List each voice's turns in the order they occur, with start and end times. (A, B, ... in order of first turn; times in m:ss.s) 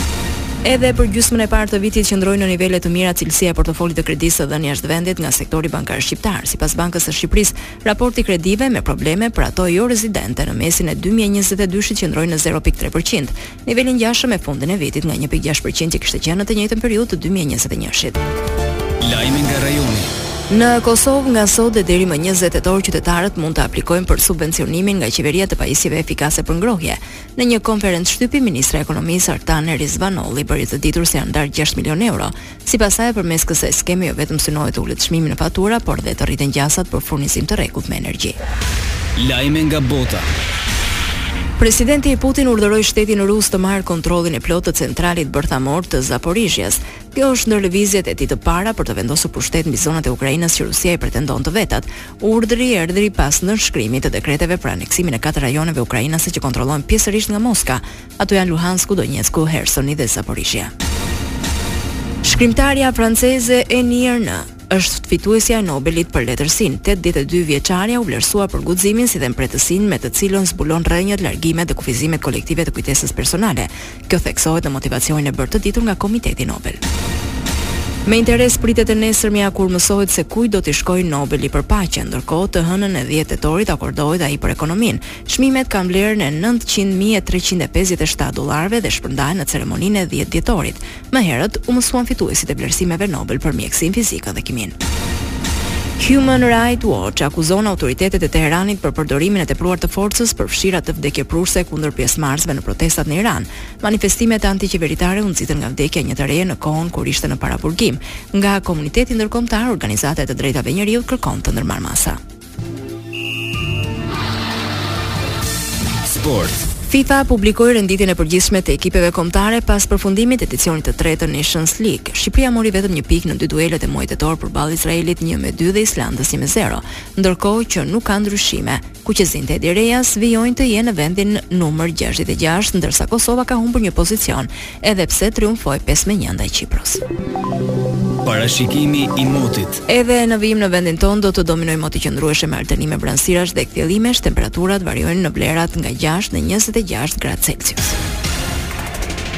0:00.6-0:18.2 A
0:19.0-0:20.1 B
0:20.5-0:38.4 A
0:39.2-0:40.3 B
0:41.6-1:00.7 A
1:02.2-1:16.8 A
1:18.1-1:34.8 A
1:36.0-1:52.2 A
1:56.0-1:56.7 B
1:56.8-2:17.0 A
2:18.2-2:19.8 B
2:19.9-2:28.0 A